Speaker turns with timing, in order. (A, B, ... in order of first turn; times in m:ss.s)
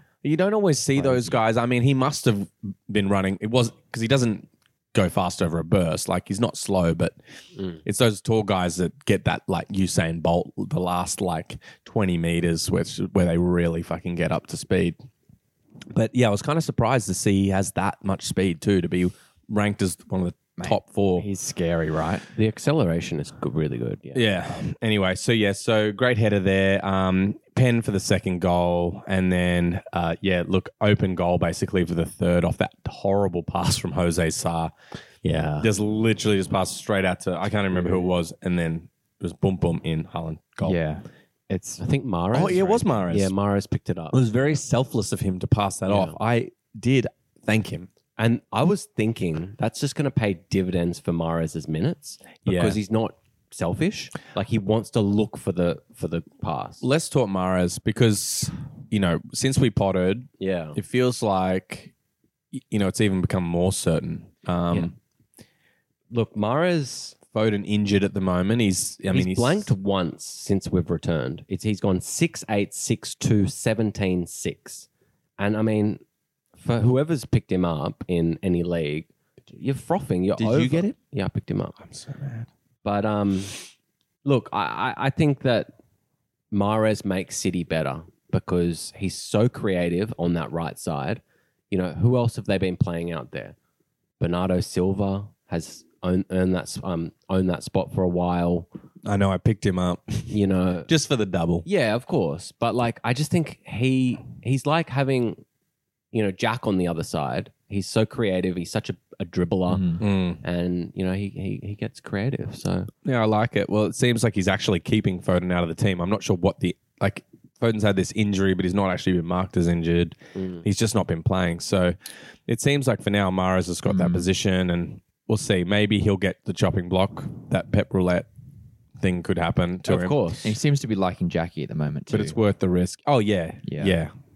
0:00.2-0:07.2 A
0:01.0-0:01.3 B
0:07.8-0:15.0 A
0:15.9-0:21.3 A
0:20.6-0:22.3 C
0:22.3-0:24.2 B
0:24.1-0:34.7 A
0:35.2-0:35.7 C
0:35.6-0:40.8 A
0:37.7-0:38.1 B
0:40.6-0:41.8 C
0:41.8-0:44.2 B
0:42.3-0:43.3 A
0:44.1-0:47.9 A
0:45.9-0:46.2 B
0:48.2-0:56.8 B
0:52.4-0:52.8 A
0:56.8-1:01.9 A
1:00.4-1:00.8 B
1:02.5-1:04.9 A
1:06.1-1:07.2 B
1:07.3-1:09.7 A
1:09.1-1:14.9 B
1:15.4-1:16.0 B
1:16.6-1:21.8 B
1:20.4-1:20.9 A
1:21.8-1:22.5 A
1:22.8-1:23.6 B
1:24.2-1:25.7 B
1:26.5-1:33.5 B
1:34.2-1:38.7 B
1:39.0-1:41.6 A
1:40.3-1:40.9 B
1:41.6-1:45.4 B
1:46.1-1:52.9 B
1:49.7-1:50.0 C
1:50.0-1:50.4 A
1:53.0-2:02.0 A
2:00.4-2:00.6 B
2:02.5-2:08.3 A
2:03.9-2:04.3 C
2:09.0-2:10.2 A
2:09.8-2:10.5 B
2:10.4-2:12.4 C
2:12.1-2:14.1 A
2:13.6-2:14.0 C